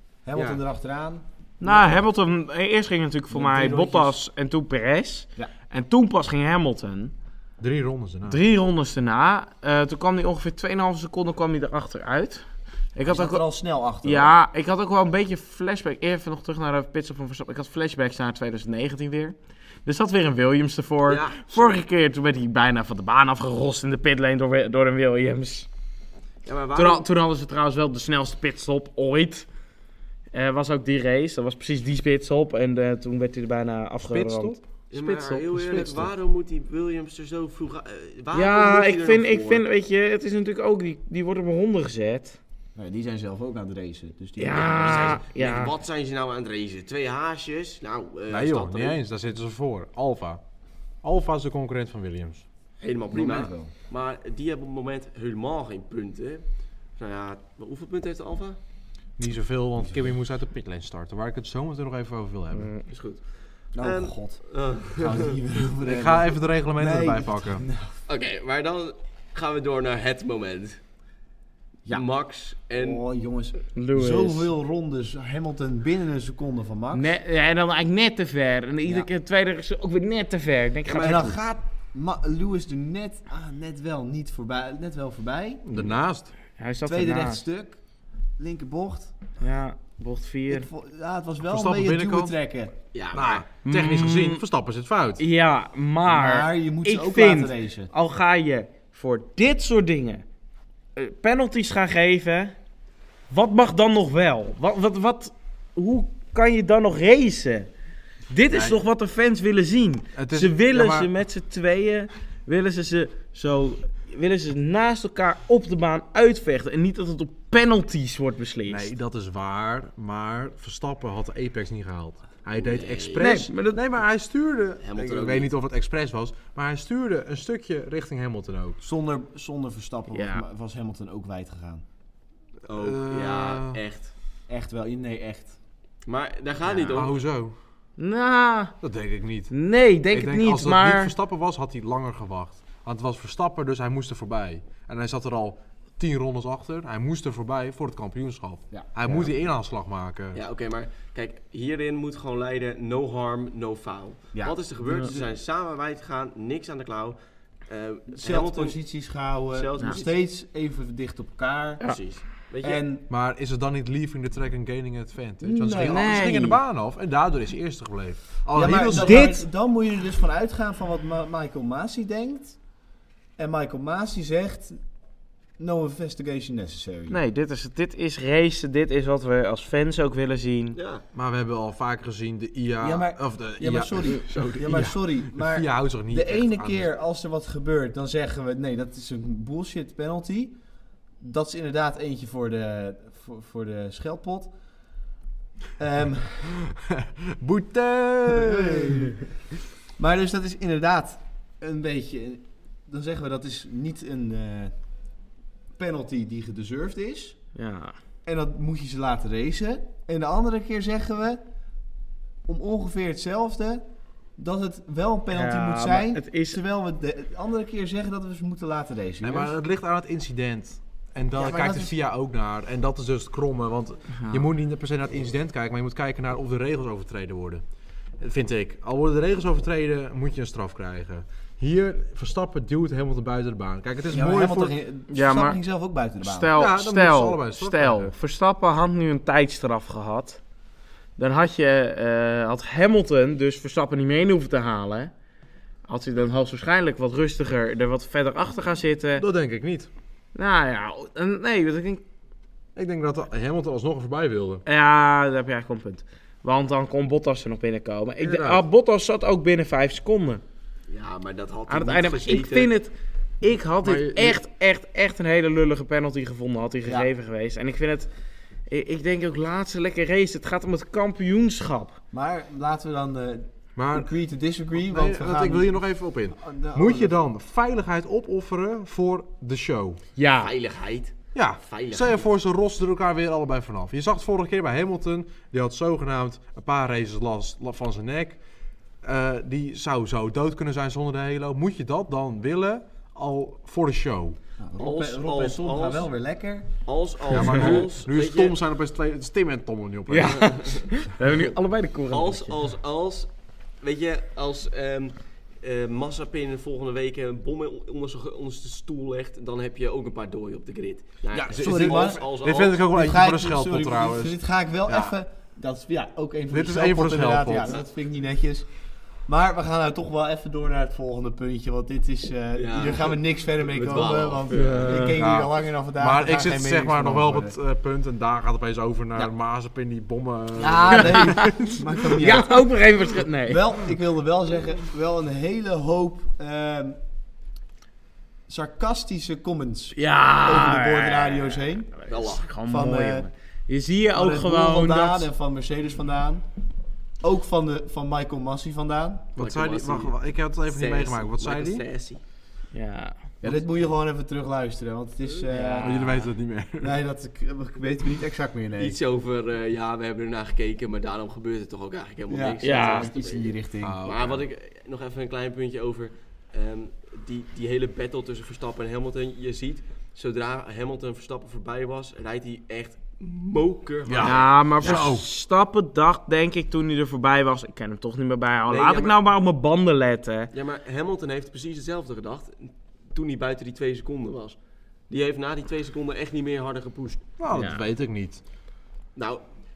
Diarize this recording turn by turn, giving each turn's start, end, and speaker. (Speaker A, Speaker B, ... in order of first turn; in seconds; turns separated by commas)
Speaker A: 0.2-2.0, Speaker B: 0.3-0.6, Speaker C: 1.6-7.1, Speaker A: 3.3-4.1, Speaker D: 7.6-8.4, Speaker C: 8.3-13.4, Speaker A: 13.1-14.3, Speaker C: 14.0-25.7, Speaker B: 21.1-21.8, Speaker B: 26.4-27.1, Speaker C: 26.8-29.5, Speaker C: 30.3-35.5, Speaker D: 34.0-34.6, Speaker B: 34.9-39.6, Speaker D: 35.5-36.1, Speaker C: 38.3-42.4, Speaker A: 42.8-45.2, Speaker C: 44.4-45.7, Speaker B: 44.7-49.0, Speaker D: 48.3-50.4, Speaker D: 51.0-52.5, Speaker B: 52.8-56.4, Speaker A: 53.1-53.7, Speaker B: 57.0-58.6, Speaker D: 59.2-62.7, Speaker C: 62.5-62.9, Speaker B: 62.9-63.2, Speaker A: 63.8-67.9, Speaker B: 63.8-65.4, Speaker D: 65.8-67.7, Speaker B: 68.1-70.8, Speaker B: 71.9-73.0, Speaker A: 72.8-77.1, Speaker C: 73.8-74.5, Speaker C: 76.9-81.4, Speaker A: 80.9-85.9, Speaker D: 85.7-86.3, Speaker C: 86.6-87.4, Speaker A: 86.8-87.8, Speaker A: 88.4-89.1, Speaker C: 89.4-90.7, Speaker A: 90.5-92.7, Speaker D: 91.4-92.4, Speaker B: 92.9-93.5, Speaker D: 93.1-95.2, Speaker C: 93.6-94.4, Speaker C: 95.2-100.2, Speaker A: 96.1-97.9, Speaker C: 101.0-102.5, Speaker C: 103.3-107.7, Speaker C: 108.3-118.9, Speaker D: 108.5-108.8, Speaker D: 110.2-111.1, Speaker D: 118.7-128.8, Speaker B: 122.6-123.4, Speaker C: 123.2-123.8, Speaker B: 124.8-125.5, Speaker A: 128.8-131.8, Speaker C: 130.1-130.4, Speaker B: 132.7-134.1, Speaker D: 132.7-133.8, Speaker A: 134.5-135.6, Speaker B: 136.1-137.1, Speaker C: 136.7-136.9, Speaker D: 136.9-137.6, Speaker C: 138.0-138.8, Speaker D: 138.8-139.5, Speaker C: 139.5-141.1, Speaker D: 140.1-150.4, Speaker A: 148.7-149.3, Speaker B: 150.3-158.8, Speaker A: 154.3-155.3, Speaker A: 158.2-161.8, Speaker B: 159.5-160.1, Speaker B: 161.8-162.8, Speaker A: 162.6-163.1, Speaker D: 163.1-169.3, Speaker A: 165.4-166.2, Speaker C: 165.8-166.6, Speaker A: 168.5-172.6, Speaker C: 168.9-169.4, Speaker A: 173.4-174.8, Speaker A: 175.6-177.2, Speaker C: 177.1-180.8, Speaker B: 180.8-181.0, Speaker D: 181.1-186.9, Speaker A: 182.8-190.6, Speaker A: 191.2-194.5, Speaker A: 195.8-196.6, Speaker D: 196.6-199.1, Speaker A: 198.3-199.2, Speaker A: 200.0-204.8, Speaker A: 205.8-207.4, Speaker C: 207.6-207.9, Speaker A: 208.3-211.4, Speaker A: 212.5-213.8, Speaker A: 214.4-219.6, Speaker C: 215.3-216.6, Speaker D: 219.2-227.6, Speaker A: 221.4-221.9, Speaker C: 224.2-224.4, Speaker D: 228.2-234.8, Speaker A: 234.1-236.5, Speaker C: 235.1-235.6, Speaker C: 236.2-240.4, Speaker D: 236.5-238.1, Speaker C: 241.2-245.1, Speaker C: 245.9-249.2, Speaker D: 249.2-249.9, Speaker C: 250.3-252.0, Speaker D: 252.8-254.6, Speaker C: 254.7-260.4, Speaker D: 258.2-258.6, Speaker B: 260.9-262.7, Speaker C: 261.7-268.1, Speaker D: 263.8-264.4, Speaker C: 268.7-272.0, Speaker A: 272.1-277.2, Speaker D: 273.8-274.1, Speaker D: 274.7-280.0, Speaker C: 280.2-280.5, Speaker B: 280.3-282.3, Speaker D: 281.3-288.4, Speaker D: 289.0-294.4, Speaker A: 294.6-296.7, Speaker B: 294.8-296.1, Speaker B: 296.8-298.6, Speaker D: 297.3-300.6, Speaker C: 300.1-302.5, Speaker B: 302.1-312.8, Speaker D: 311.3-314.4, Speaker A: 311.5-318.7, Speaker D: 314.9-315.1, Speaker D: 316.5-317.8, Speaker A: 319.3-327.6, Speaker B: 322.6-325.0, Speaker C: 324.5-325.1, Speaker D: 324.9-331.8, Speaker A: 330.6-332.7, Speaker C: 331.0-331.5, Speaker C: 332.1-333.8, Speaker A: 333.4-337.0, Speaker A: 338.5-341.9, Speaker C: 340.0-345.3, Speaker B: 342.1-342.5, Speaker A: 342.7-343.3, Speaker A: 344.1-346.4, Speaker A: 347.2-349.3, Speaker D: 349.4-351.8, Speaker B: 349.4-352.2, Speaker C: 352.7-353.2, Speaker A: 353.4-356.3, Speaker C: 355.5-356.2, Speaker D: 355.8-356.9, Speaker A: 356.8-359.0, Speaker B: 358.8-375.1, Speaker A: 362.3-364.0, Speaker C: 362.6-363.1, Speaker D: 363.8-364.4, Speaker D: 374.1-375.3, Speaker C: 374.2-380.5, Speaker B: 378.7-379.2, Speaker B: 380.5-384.6, Speaker B: 385.1-387.2, Speaker D: 387.4-388.4, Speaker C: 387.5-387.9, Speaker B: 389.2-389.4